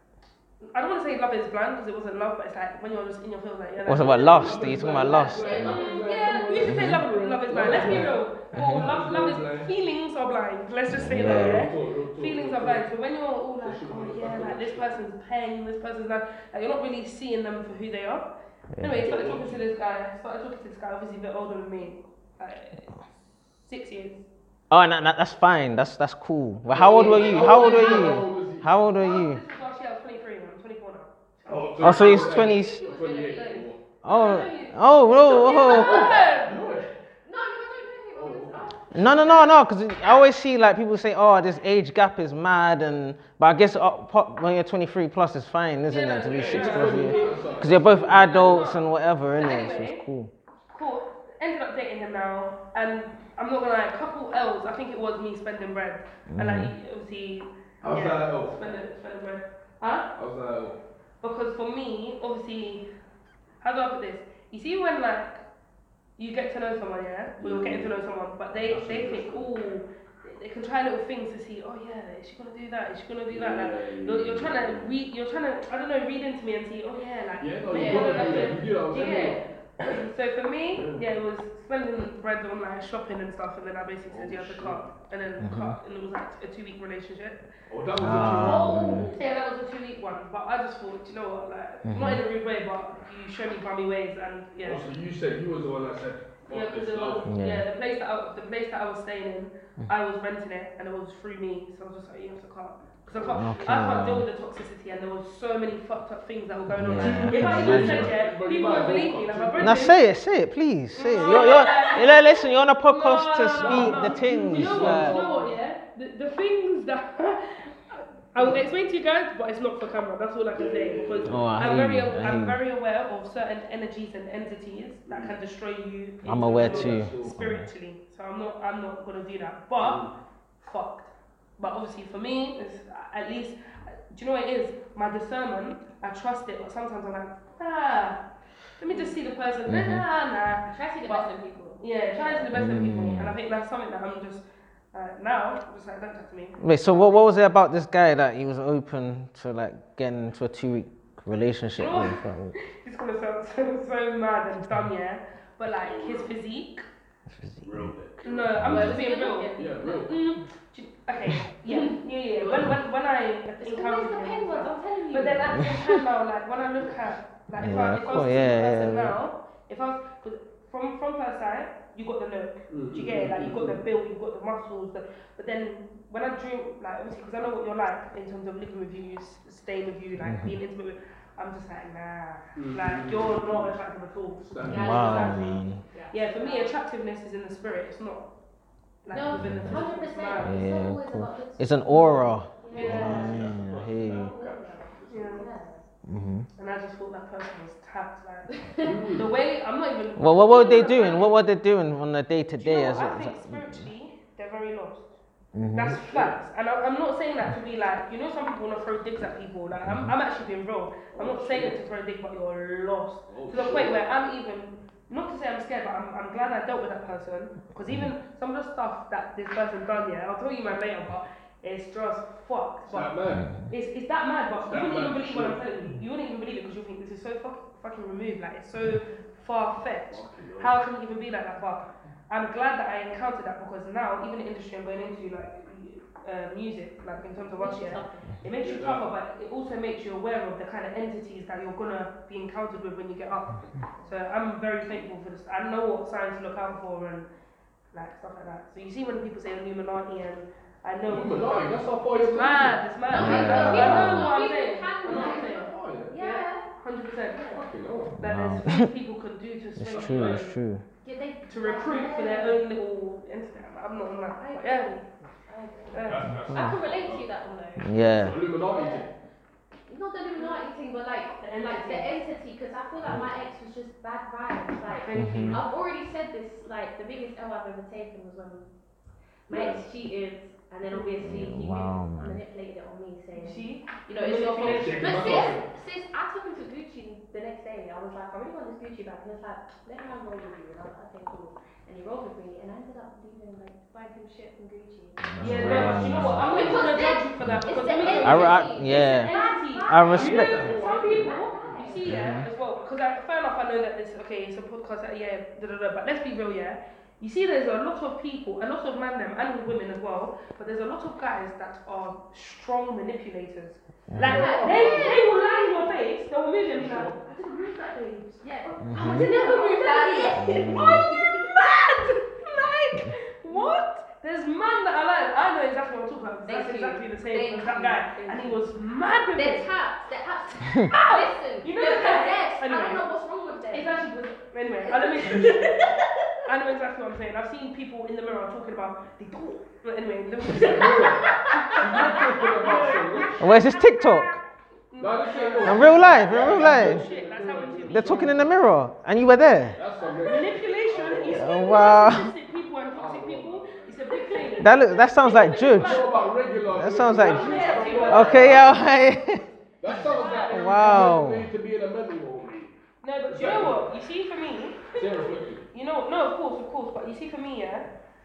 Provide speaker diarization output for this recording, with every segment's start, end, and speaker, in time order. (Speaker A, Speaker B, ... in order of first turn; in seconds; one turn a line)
Speaker A: 0.6-18.3
Speaker B: 3.9-5.7
Speaker C: 4.2-9.7
Speaker D: 5.1-6.8
Speaker B: 6.7-7.0
Speaker D: 7.3-8.1
Speaker B: 8.5-8.9
Speaker B: 10.9-11.7
Speaker C: 11.2-12.9
Speaker C: 13.6-15.0
Speaker B: 18.8-19.1
Speaker A: 18.8-23.0
Speaker C: 19.0-19.6
Speaker A: 23.6-24.2
Speaker B: 24.7-29.4
Speaker C: 26.7-28.7
Speaker D: 26.9-27.9
Speaker A: 27.1-28.2
Speaker A: 29.0-32.2
Speaker C: 31.5-33.8
Speaker B: 31.8-32.8
Speaker D: 32.1-33.7
Speaker A: 33.3-36.6
Speaker B: 34.0-36.1
Speaker D: 35.3-36.5
Speaker C: 35.7-36.9
Speaker D: 37.2-39.1
Speaker C: 38.1-38.8
Speaker B: 38.9-50.3
Speaker A: 45.9-50.0
Speaker C: 46.3-48.6
Speaker D: 47.1-47.5
Speaker A: 50.7-60.1
Speaker B: 56.3-56.7
Speaker C: 57.8-58.7
Speaker C: 60.2-60.8
Speaker A: 61.2-62.9
Speaker A: 63.6-65.4
Speaker A: 66.2-87.4
Speaker C: 67.4-68.0
Speaker C: 68.5-69.5
Speaker C: 73.3-74.9
Speaker C: 77.4-79.4
Speaker D: 77.7-79.4
Speaker C: 80.7-81.1
Speaker C: 84.1-84.9
Speaker B: 85.4-85.8
Speaker C: 87.7-88.8
Speaker B: 88.0-89.1
Speaker D: 88.2-89.2
Speaker A: 89.1-94.8
Speaker B: 91.8-92.2
Speaker C: 94.6-97.3
Speaker A: 96.5-110.0
Speaker B: 97.3-97.7
Speaker C: 103.1-103.6
Speaker B: 103.3-104.3
Speaker B: 106.7-108.1
Speaker C: 107.0-109.9
Speaker B: 109.6-115.2
Speaker A: 111.0-130.1
Speaker D: 111.2-112.0
Speaker C: 113.6-115.6
Speaker C: 120.5-121.5
Speaker B: 121.3-122.6
Speaker C: 125.1-125.4
Speaker B: 126.2-127.7
Speaker C: 126.5-127.4
Speaker C: 129.8-130.1
Speaker A: 130.6-138.2
Speaker A: 138.8-141.3
Speaker D: 138.9-139.2
Speaker B: 139.7-140.0
Speaker D: 140.7-142.6
Speaker A: 141.8-146.6
Speaker B: 142.5-143.4
Speaker B: 146.6-152.6
Speaker A: 151.8-156.8
Speaker C: 155.8-156.3
Speaker B: 157.3-157.9
Speaker C: 157.6-158.5
Speaker A: 158.2-188.3
Speaker B: 158.6-159.0
Speaker D: 158.6-160.1
Speaker C: 159.6-160.2
Speaker D: 161.7-162.8
Speaker D: 163.6-165.9
Speaker B: 167.6-169.2
Speaker C: 172.7-173.8
Speaker B: 180.2-180.6
Speaker C: 182.6-183.8
Speaker C: 184.4-185.3
Speaker D: 184.6-186.8
Speaker B: 184.6-185.8
Speaker A: 189.0-190.7
Speaker D: 189.1-193.5
Speaker B: 189.3-189.9
Speaker B: 190.4-194.3
Speaker A: 192.7-193.4
Speaker C: 192.7-195.5
Speaker D: 194.2-195.8
Speaker A: 195.1-195.5
Speaker B: 196.1-196.5
Speaker A: 196.6-201.3
Speaker D: 198.7-199.0
Speaker C: 198.8-199.4
Speaker B: 200.2-203.7
Speaker A: 202.6-205.1
Speaker B: 205.5-206.0
Speaker A: 205.7-223.1
Speaker C: 205.8-206.4
Speaker B: 209.8-210.1
Speaker C: 211.1-211.8
Speaker C: 213.3-214.0
Speaker C: 222.9-223.5
Speaker B: 223.3-223.7
Speaker A: 223.7-247.3
Speaker C: 224.6-225.6
Speaker D: 229.0-229.3
Speaker C: 230.1-230.8
Speaker D: 237.6-238.4
Speaker C: 238.6-239.1
Speaker A: 247.9-257.5
Speaker C: 251.1-252.8
Speaker D: 253.1-256.7
Speaker B: 253.1-254.3
Speaker C: 253.4-254.0
Speaker C: 255.0-256.2
Speaker D: 257.3-257.7
Speaker C: 257.5-258.2
Speaker A: 258.2-260.6
Speaker B: 258.2-258.9
Speaker B: 259.8-260.8
Speaker C: 259.9-260.5
Speaker D: 261.0-262.6
Speaker A: 261.5-264.9
Speaker D: 264.4-267.9
Speaker A: 265.9-266.3
Speaker C: 266.0-267.3
Speaker B: 266.4-266.8
Speaker B: 267.8-268.4
Speaker C: 268.1-269.1
Speaker D: 268.5-269.1
Speaker D: 269.9-278.7
Speaker A: 270.4-270.6
Speaker A: 271.4-272.2
Speaker C: 273.0-273.3
Speaker A: 274.9-275.7
Speaker B: 275.1-275.6
Speaker D: 279.5-302.2
Speaker C: 279.5-279.8
Speaker A: 280.9-281.2
Speaker B: 281.2-282.4
Speaker A: 283.4-285.6
Speaker C: 284.6-285.7
Speaker B: 295.2-296.4
Speaker A: 295.4-329.7
Speaker C: 295.5-297.0
Speaker C: 298.0-298.3
Speaker B: 298.2-299.3
Speaker B: 299.9-300.7
Speaker C: 300.1-302.2
Speaker B: 302.1-302.5
Speaker B: 314.1-314.5
Speaker D: 314.2-316.1
Speaker C: 314.2-315.2
Speaker C: 316.7-317.2
Speaker D: 318.4-321.7
Speaker B: 318.8-319.3
Speaker B: 320.4-321.1
Speaker D: 323.5-323.7
Speaker D: 326.5-328.6
Speaker D: 329.4-334.0
Speaker A: 330.9-333.1
Speaker A: 333.7-335.9
Speaker D: 334.9-336.2
Speaker A: 336.5-344.4
Speaker C: 340.5-343.4
Speaker D: 340.8-343.3
Speaker B: 343.4-344.4
Speaker A: 344.9-348.4
Speaker C: 345.0-348.5
Speaker B: 345.6-347.0
Speaker B: 347.9-349.8
Speaker C: 349.8-351.8
Speaker A: 350.2-356.3
Speaker B: 351.3-352.3
Speaker C: 352.9-354.2
Speaker D: 354.3-354.6
Speaker B: 354.6-356.0
Speaker D: 355.4-355.8
Speaker C: 355.7-358.8
Speaker B: 356.7-357.5
Speaker A: 357.2-358.8
Speaker D: 357.3-358.7
Speaker B: 358.1-359.4
Speaker C: 359.8-362.8
Speaker A: 359.9-361.1
Speaker D: 359.9-360.7
Speaker B: 360.5-361.5
Speaker A: 363.0-367.9
Speaker C: 363.3-364.0
Speaker C: 364.9-365.7